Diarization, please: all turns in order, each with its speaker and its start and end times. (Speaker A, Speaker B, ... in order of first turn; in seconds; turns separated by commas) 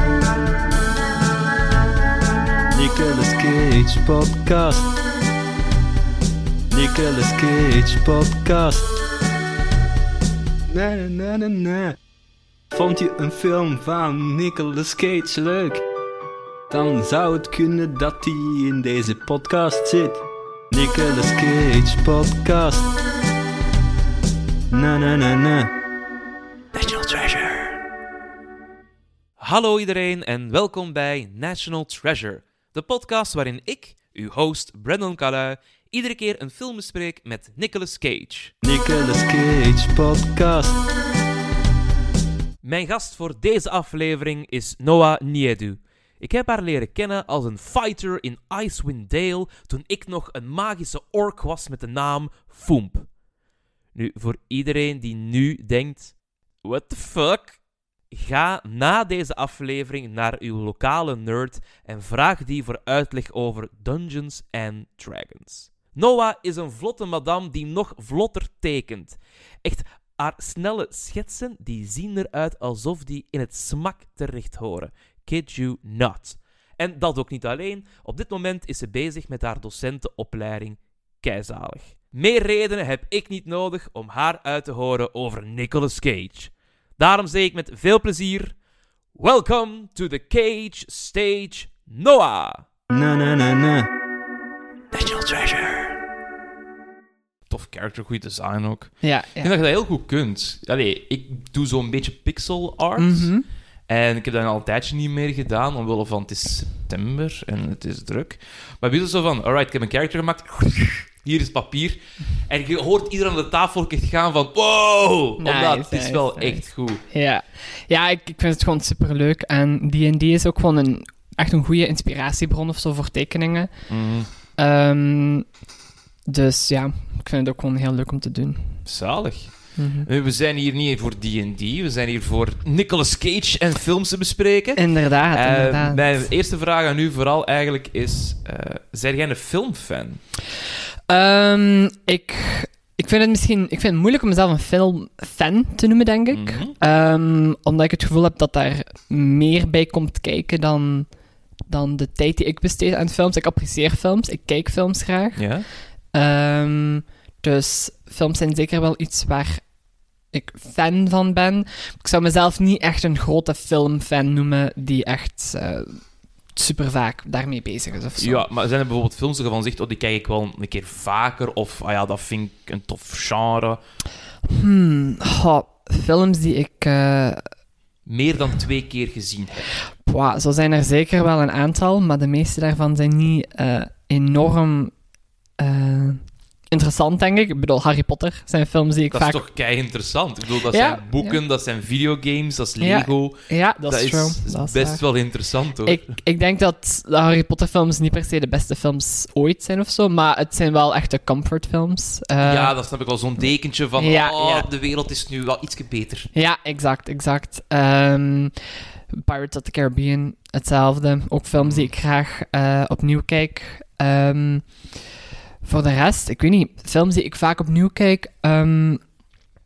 Speaker A: 2.7-4.9, Speaker A: 6.7-8.8, Speaker A: 10.7-11.9, Speaker A: 12.7-15.8, Speaker A: 16.7-20.2, Speaker A: 20.7-22.9, Speaker A: 24.7-25.7, Speaker B: 26.7-27.8, Speaker B: 29.4-38.5, Speaker A: 38.6-40.8, Speaker B: 42.6-53.1, Speaker B: 53.9-57.6, Speaker B: 58.1-88.5, Speaker B: 89.1-92.7, Speaker A: 92.9-93.9, Speaker B: 94.9-96.0, Speaker B: 97.5-103.3, Speaker C: 99.0-99.5, Speaker C: 103.0-103.4, Speaker B: 103.9-117.0, Speaker C: 115.4-123.7, Speaker B: 123.9-124.3, Speaker C: 124.6-125.5, Speaker C: 126.3-128.8, Speaker B: 128.8-140.2, Speaker C: 129.8-130.1, Speaker C: 134.8-136.3, Speaker C: 141.1-151.1, Speaker B: 146.3-146.7, Speaker C: 151.7-155.5, Speaker B: 155.3-155.7, Speaker C: 156.1-159.7, Speaker C: 160.3-166.0, Speaker C: 166.5-168.4, Speaker B: 168.2-173.8, Speaker C: 174.5-177.5, Speaker B: 178.1-179.7, Speaker C: 180.0-184.9, Speaker C: 185.6-189.4, Speaker B: 189.1-196.1, Speaker C: 190.7-191.4, Speaker C: 192.8-195.0, Speaker C: 195.8-202.7, Speaker B: 202.4-206.3, Speaker C: 204.0-204.7, Speaker C: 206.3-214.9, Speaker B: 211.6-211.9, Speaker C: 215.6-219.0